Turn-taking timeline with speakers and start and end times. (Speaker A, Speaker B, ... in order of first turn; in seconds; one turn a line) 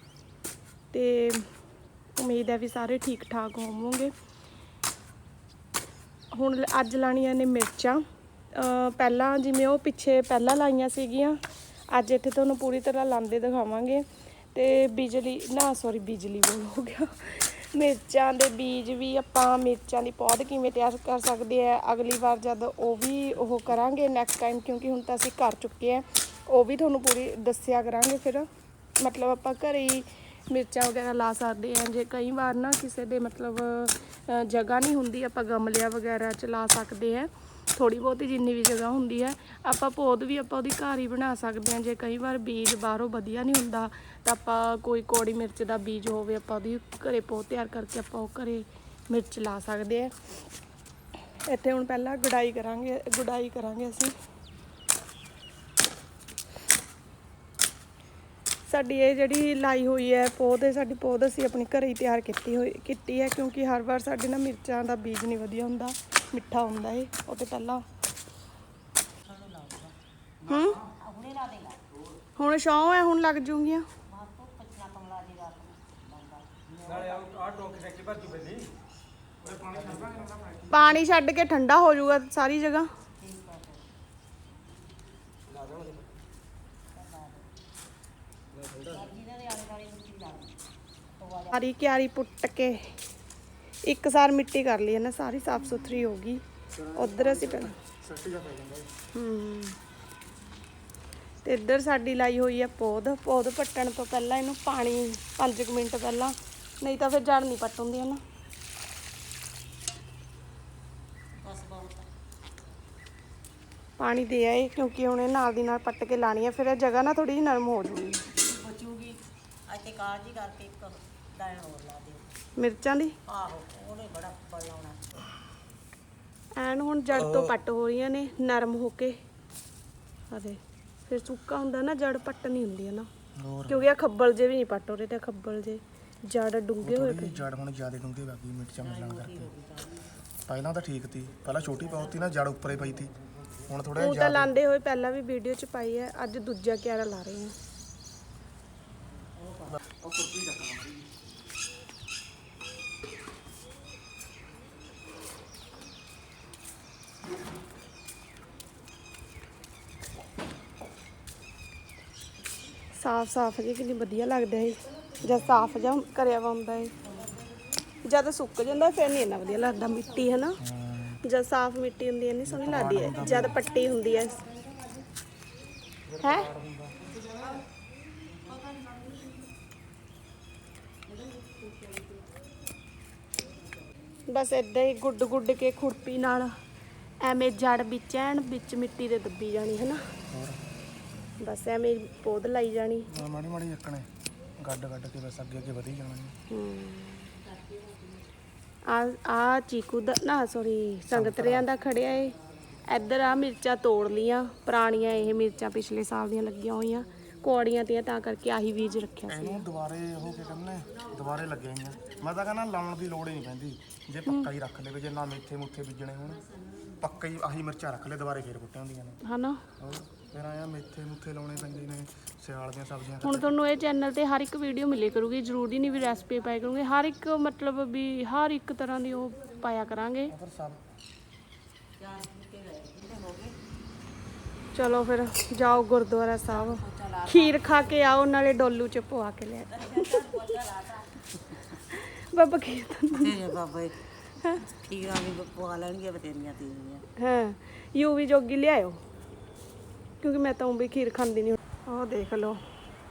Speaker A: 0.9-1.4
Speaker A: 2.2-4.1
Speaker A: 6.3-8.0
Speaker A: 8.5-11.4
Speaker A: 11.9-28.5
Speaker A: 29.0-50.1
Speaker A: 51.5-54.1
Speaker A: 58.7-67.8
Speaker B: 69.2-69.9
Speaker A: 70.5-70.8
Speaker B: 71.0-71.8
Speaker A: 72.4-73.9
Speaker B: 74.1-77.2
Speaker C: 76.9-78.7
Speaker C: 79.4-80.8
Speaker A: 80.7-82.9
Speaker B: 83.2-83.8
Speaker C: 85.5-86.0
Speaker B: 86.9-87.5
Speaker B: 88.8-90.5
Speaker B: 91.2-91.6
Speaker A: 91.5-93.0
Speaker A: 93.9-96.4
Speaker C: 96.8-98.9
Speaker A: 96.9-97.8
Speaker A: 99.1-99.8
Speaker A: 101.4-108.2
Speaker B: 111.4-112.1
Speaker A: 114.0-118.2
Speaker B: 118.3-122.3
Speaker A: 122.6-123.2
Speaker B: 123.3-125.2
Speaker A: 126.6-129.2
Speaker C: 127.2-127.5
Speaker A: 130.3-133.1
Speaker C: 133.4-133.8
Speaker A: 133.7-137.4
Speaker C: 136.8-139.5
Speaker B: 138.8-139.8
Speaker C: 140.5-143.1
Speaker C: 143.7-144.5
Speaker A: 144.0-147.6
Speaker B: 149.4-149.7
Speaker C: 149.9-151.0
Speaker A: 162.9-166.9
Speaker A: 168.0-170.6
Speaker C: 170.6-171.2
Speaker A: 171.2-174.4
Speaker C: 172.5-173.6
Speaker C: 176.1-177.1
Speaker A: 176.2-176.5
Speaker B: 181.3-181.7
Speaker A: 184.3-186.5
Speaker A: 187.2-190.0
Speaker C: 190.3-190.6
Speaker A: 191.4-193.1
Speaker C: 193.1-194.1
Speaker C: 194.6-196.3
Speaker A: 196.5-197.3
Speaker A: 198.9-202.3
Speaker C: 201.1-201.7
Speaker A: 202.9-209.6
Speaker C: 209.3-216.4
Speaker C: 217.0-219.2
Speaker A: 219.2-219.6
Speaker C: 219.8-223.5
Speaker A: 223.2-230.3
Speaker C: 230.3-230.8
Speaker B: 232.0-233.6
Speaker A: 234.7-240.2
Speaker B: 236.6-237.8
Speaker B: 239.7-241.6
Speaker A: 241.9-243.3
Speaker B: 243.1-244.0
Speaker B: 244.6-247.0
Speaker A: 247.2-249.0
Speaker A: 250.2-252.6